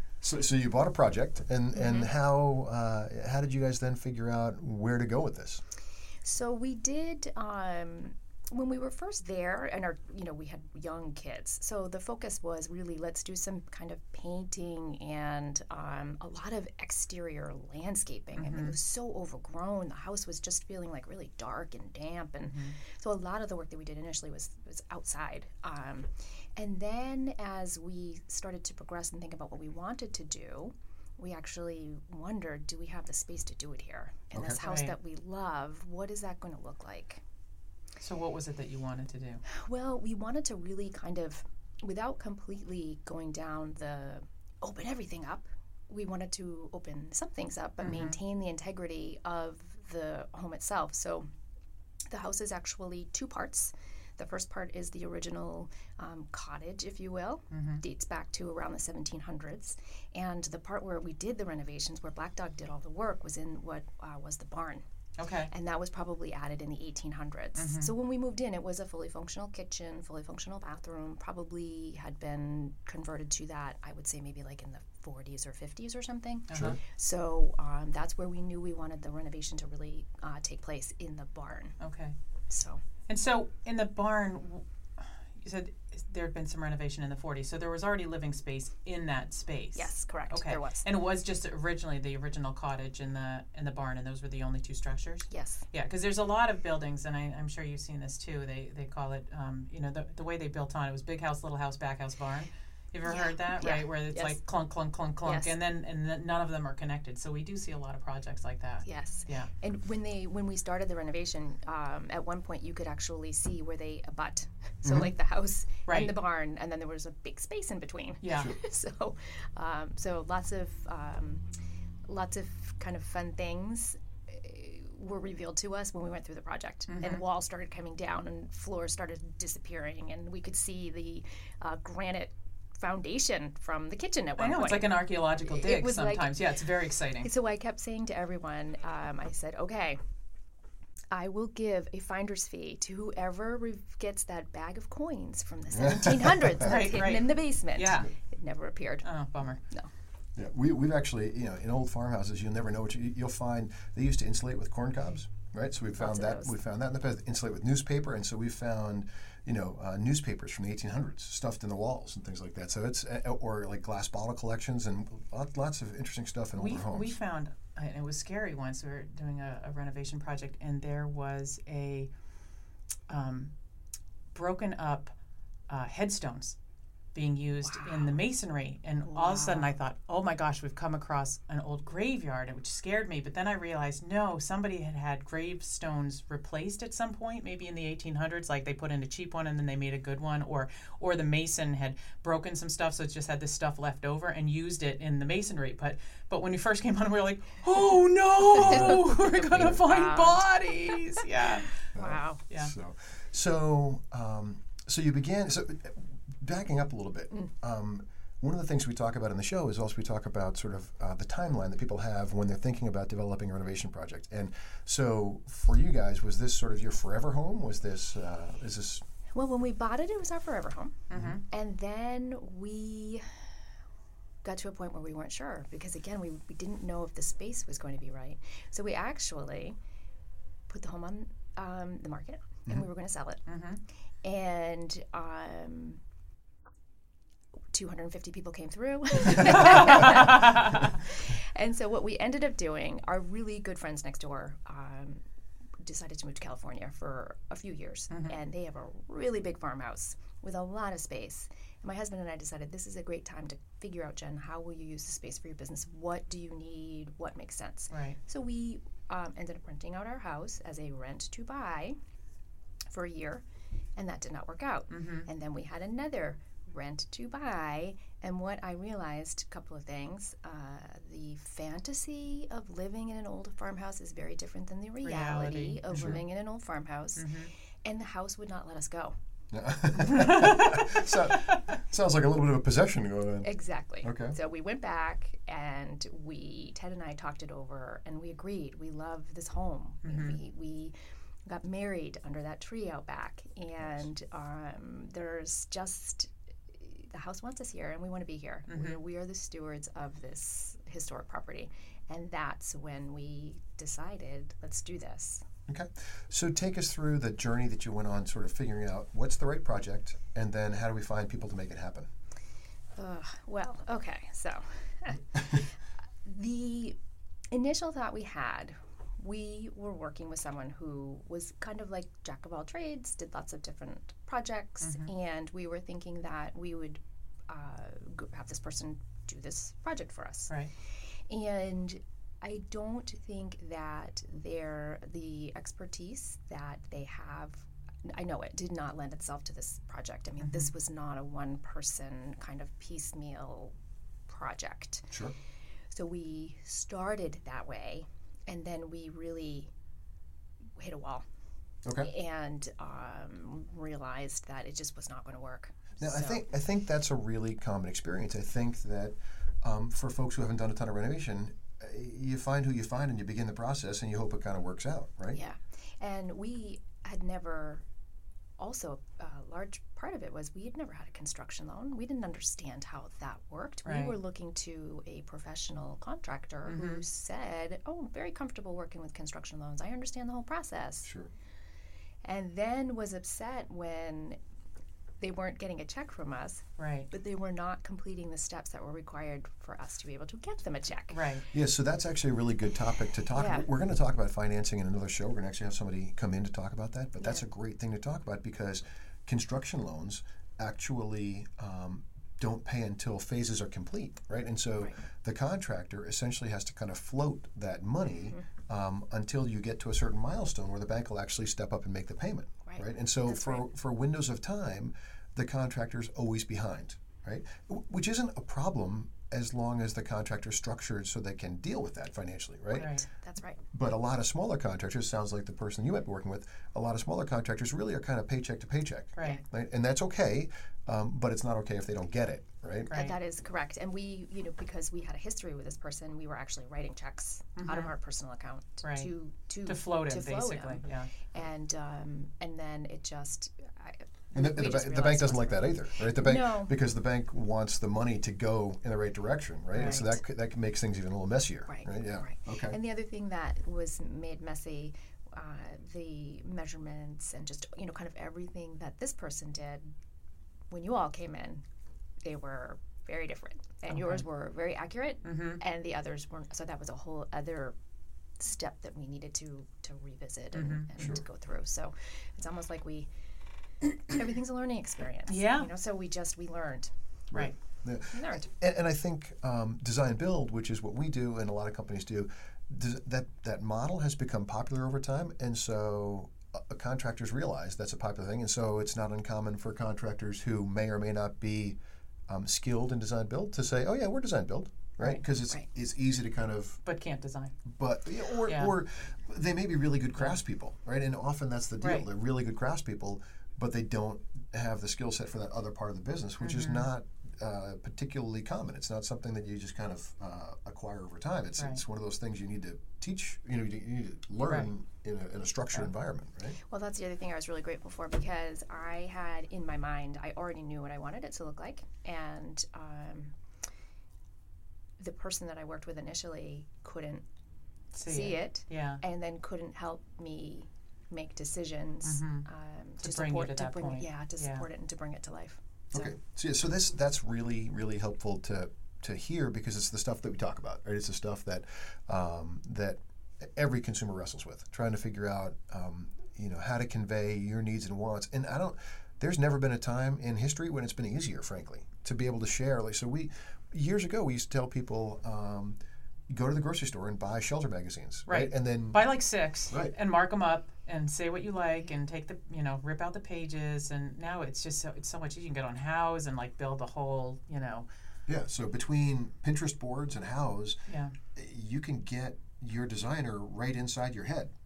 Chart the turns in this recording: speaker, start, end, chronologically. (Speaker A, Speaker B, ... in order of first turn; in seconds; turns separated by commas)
Speaker A: 0.2-5.6, Speaker B: 1.7-2.1, Speaker B: 6.2-37.2, Speaker C: 18.4-18.8, Speaker C: 22.4-22.8, Speaker C: 34.5-34.9, Speaker C: 38.0-39.4, Speaker B: 39.5-51.3, Speaker C: 47.8-48.2, Speaker B: 52.1-64.8, Speaker C: 57.5-57.8, Speaker C: 65.2-65.5, Speaker B: 65.5-81.8, Speaker C: 67.5-67.9, Speaker C: 76.5-76.8, Speaker C: 81.8-82.1, Speaker B: 82.5-82.8, Speaker C: 83.1-109.5, Speaker B: 89.7-90.8, Speaker B: 95.3-95.6, Speaker B: 103.0-104.4, Speaker B: 105.2-105.5, Speaker B: 108.8-121.4, Speaker A: 114.8-115.1, Speaker C: 115.9-116.2, Speaker C: 118.2-118.5, Speaker B: 122.1-136.3, Speaker C: 126.9-127.2, Speaker C: 134.4-137.3, Speaker B: 137.2-140.0, Speaker B: 141.1-149.1, Speaker A: 145.7-146.7, Speaker C: 146.6-148.1, Speaker C: 149.0-149.6, Speaker A: 150.3-167.2, Speaker B: 156.0-156.5, Speaker C: 166.6-172.1, Speaker C: 173.1-173.5, Speaker C: 174.3-175.1, Speaker C: 175.7-176.6, Speaker C: 177.1-201.8, Speaker B: 177.7-178.1, Speaker B: 179.1-179.8, Speaker B: 198.6-201.2, Speaker A: 198.6-199.0, Speaker B: 201.9-202.4, Speaker A: 201.9-219.0, Speaker B: 219.3-223.3, Speaker C: 221.1-221.4, Speaker B: 224.4-229.8, Speaker B: 230.7-233.4, Speaker C: 233.5-233.8, Speaker B: 234.2-236.0, Speaker B: 237.7-245.2, Speaker C: 240.3-240.9, Speaker B: 245.8-261.9, Speaker C: 248.1-248.4, Speaker C: 257.9-258.2, Speaker B: 262.9-263.4, Speaker B: 263.9-279.1, Speaker C: 264.9-265.3, Speaker C: 275.0-276.2, Speaker A: 275.9-276.2, Speaker C: 277.1-277.5, Speaker A: 279.5-283.5, Speaker C: 280.1-280.9, Speaker B: 283.4-290.9, Speaker A: 284.0-284.4, Speaker C: 290.0-290.4, Speaker B: 291.4-305.4, Speaker C: 298.7-299.0, Speaker A: 305.7-312.1, Speaker B: 312.9-317.0, Speaker B: 317.5-330.5, Speaker C: 324.8-325.1, Speaker B: 331.3-343.7, Speaker C: 340.4-340.7, Speaker B: 344.3-345.1, Speaker B: 345.9-349.7, Speaker B: 350.8-351.2, Speaker A: 351.8-352.1, Speaker B: 352.0-356.4, Speaker A: 356.0-365.4, Speaker B: 365.3-367.8, Speaker B: 368.6-381.1, Speaker C: 373.8-374.1, Speaker C: 376.6-377.0, Speaker A: 381.0-381.3, Speaker B: 382.2-384.4, Speaker B: 385.2-391.3, Speaker C: 386.8-387.1, Speaker C: 391.1-391.5, Speaker A: 391.5-422.9, Speaker B: 393.3-393.7, Speaker B: 412.6-413.6, Speaker C: 422.7-423.0, Speaker B: 422.8-423.6, Speaker A: 423.7-432.9, Speaker C: 429.2-429.4, Speaker C: 432.9-433.2, Speaker B: 432.9-446.7, Speaker C: 437.6-437.9, Speaker C: 438.8-439.1, Speaker C: 439.6-441.1, Speaker A: 444.3-452.8, Speaker C: 449.7-450.0, Speaker B: 449.8-450.2, Speaker B: 451.7-459.9, Speaker B: 460.7-461.6, Speaker B: 462.2-467.7, Speaker C: 463.9-464.2, Speaker C: 465.2-465.6, Speaker B: 468.4-473.1, Speaker C: 470.5-470.9, Speaker B: 473.8-476.9, Speaker C: 475.3-475.7, Speaker A: 477.3-491.8, Speaker B: 478.1-478.5, Speaker A: 492.3-496.8, Speaker C: 496.8-497.6, Speaker A: 497.6-516.6, Speaker C: 498.4-498.7, Speaker C: 501.8-502.1, Speaker C: 506.4-506.9, Speaker B: 516.7-523.3, Speaker B: 525.0-527.2, Speaker C: 527.9-529.0, Speaker B: 528.0-536.1, Speaker C: 532.0-532.5, Speaker C: 533.0-534.6, Speaker A: 535.9-555.8, Speaker A: 556.3-559.1, Speaker C: 558.3-567.9, Speaker A: 568.3-570.8, Speaker C: 570.9-571.1, Speaker A: 571.3-574.5